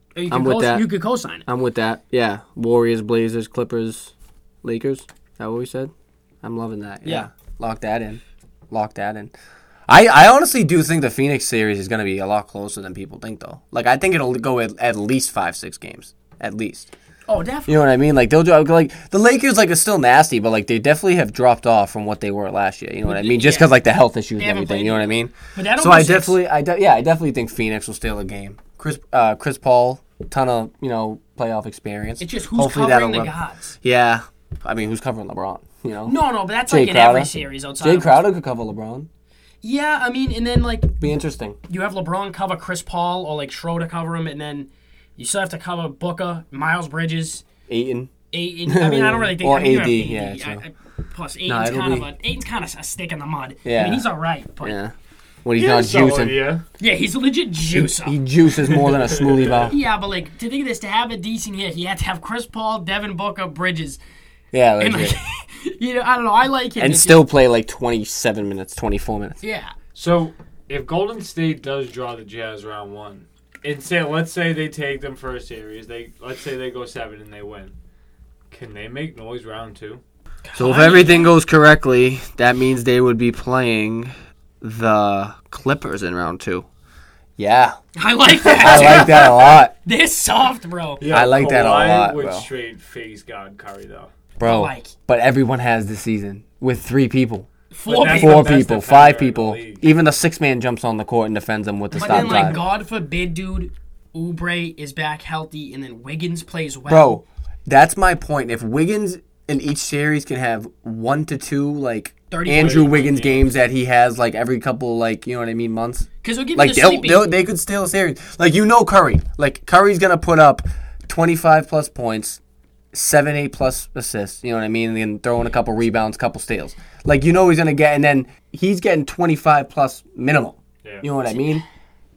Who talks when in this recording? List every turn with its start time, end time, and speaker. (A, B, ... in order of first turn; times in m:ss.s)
0:00.2-0:01.5 A
0:00.3-0:00.9 B
0:01.5-0:05.9 B
0:06.4-0:09.3 B
0:09.9-0:16.9 B
0:17.3-0:17.9 A
0:17.7-0:39.1 B
0:23.0-0:23.7 A
0:24.4-0:26.4 A
0:32.2-0:33.8 A
0:36.0-0:38.2 A
0:39.6-0:41.0 A
0:41.0-0:41.6 B
0:41.7-0:47.5 A
0:47.7-0:48.1 B
0:48.3-0:54.8 A
0:48.6-0:50.6 B
0:51.5-0:52.1 B
0:53.6-0:54.1 B
0:54.6-0:54.9 B
0:55.4-0:56.4 B
0:55.5-0:56.6 C
0:56.8-0:58.2 A
0:57.7-0:59.8 B
0:58.7-0:59.7 C
0:59.7-1:04.0 A
1:04.5-1:05.2 B
1:04.8-1:07.2 A
1:06.8-1:09.4 B
1:09.4-1:09.7 A
1:10.0-1:17.7 C
1:18.5-1:20.0 C
1:20.4-1:21.3 A
1:20.6-1:26.7 B
1:27.4-1:27.8 B
1:28.0-1:31.0 A
1:28.5-1:29.7 B
1:28.6-1:29.3 C
1:31.0-1:34.1 C
1:31.1-1:32.5 B
1:34.4-1:37.5 B
1:34.4-1:34.9 A
1:37.7-1:38.6 A
1:37.9-1:39.8 C
1:38.0-1:42.6 B
1:41.9-1:47.2 A
1:42.0-1:42.6 C
1:46.9-2:02.4 B
1:52.3-1:53.1 A
1:52.6-1:53.6 C
1:56.2-1:57.4 A
2:02.9-2:11.6 B
2:11.3-2:11.6 A